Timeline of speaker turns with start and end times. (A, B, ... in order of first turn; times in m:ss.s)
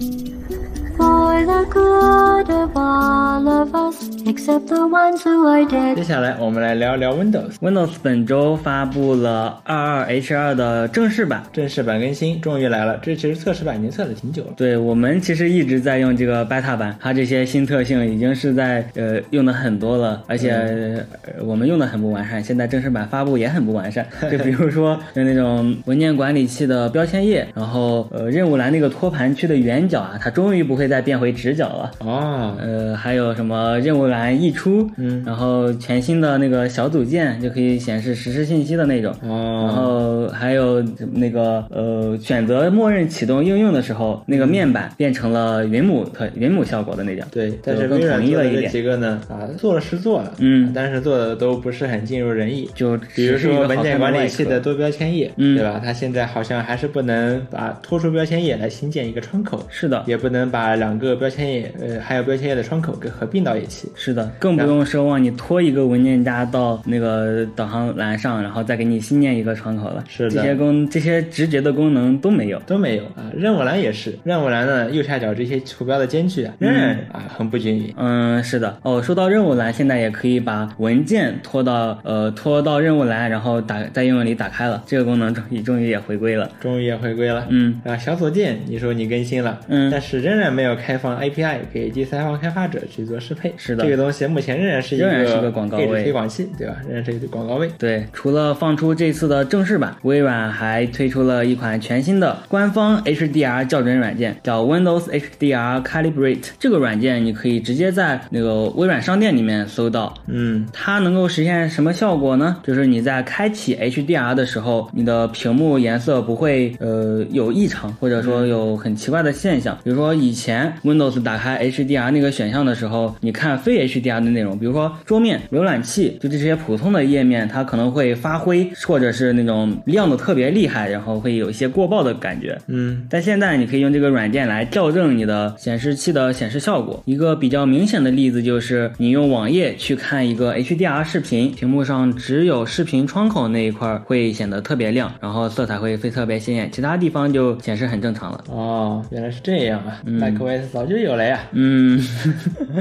0:01.0-0:06.0 A
0:05.9-0:07.6 B
0:07.6-0:11.5 C
0:11.5-0:14.6 B
0:14.6-0:32.0 C
0:20.4-0:20.8 B
0:24.2-0:24.5 B
0:32.0-0:32.6 B
0:32.6-0:48.8 C
0:35.0-0:35.3 B
0:39.2-0:40.0 B
0:44.3-0:44.7 B
0:47.3-1:03.9 B
0:50.4-0:50.8 C
0:52.8-0:54.6 C
0:55.4-0:55.6 C
0:59.7-1:00.1 C
1:04.0-1:12.6 C
1:10.1-1:10.6 B
1:12.6-1:17.9 B
1:16.6-1:17.0 C
1:17.9-1:26.6 C
1:26.6-1:37.8 B
1:27.4-1:27.8 C
1:29.7-1:30.0 C
1:33.6-1:33.9 C
1:35.0-1:36.1 C
1:37.8-1:50.2 C
1:50.3-1:50.7 B
1:50.7-2:28.4 C
1:58.2-1:58.6 B
2:12.7-2:13.1 B
2:28.5-2:31.5 B
2:30.0-2:30.5 C
2:31.5-2:32.6 C